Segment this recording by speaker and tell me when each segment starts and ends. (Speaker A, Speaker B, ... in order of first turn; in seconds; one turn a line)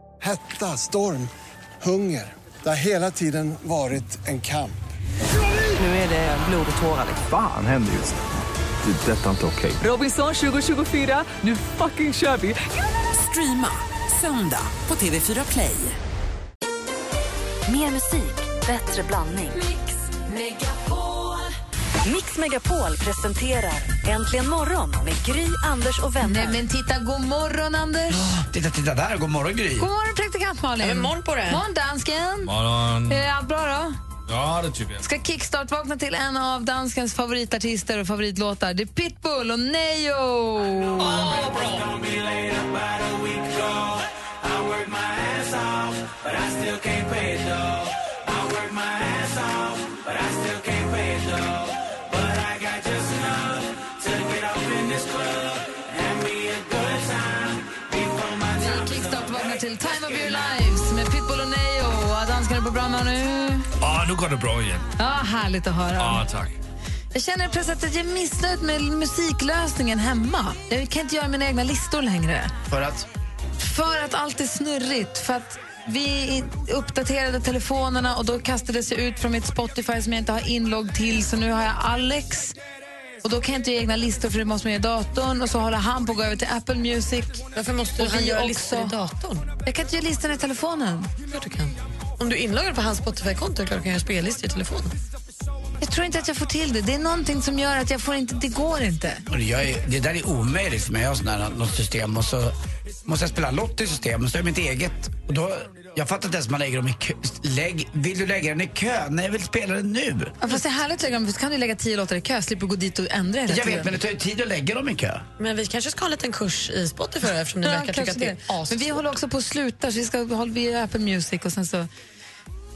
Speaker A: 0.2-4.8
Speaker B: 5.8-6.8
Speaker C: 6.3-8.2
Speaker C: 8.8-9.8
Speaker B: 9.8-16.0
Speaker D: 17.6-19.6
Speaker E: 19.6-21.0
Speaker D: 22.0-26.6
Speaker E: 26.2-28.3
Speaker F: 28.1-29.9
Speaker E: 29.8-32.5
Speaker G: 30.8-31.6
Speaker H: 32.4-33.2
Speaker E: 33.1-33.9
Speaker H: 34.3-35.0
Speaker E: 35.0-41.3
Speaker E: 58.4-63.7
Speaker H: 63.8-64.8
Speaker E: 65.0-66.2
Speaker H: 66.0-66.6
Speaker E: 67.1-72.5
Speaker F: 72.7-73.1
Speaker E: 73.6-82.5
Speaker E: 83.2-87.5
Speaker G: 87.5-89.5
Speaker E: 88.0-88.9
Speaker E: 89.6-91.1
Speaker G: 91.2-94.9
Speaker E: 95.8-99.2
Speaker F: 99.3-110.3
Speaker E: 110.4-113.9
Speaker F: 113.5-115.2
Speaker G: 115.4-119.2
Speaker E: 117.6-121.9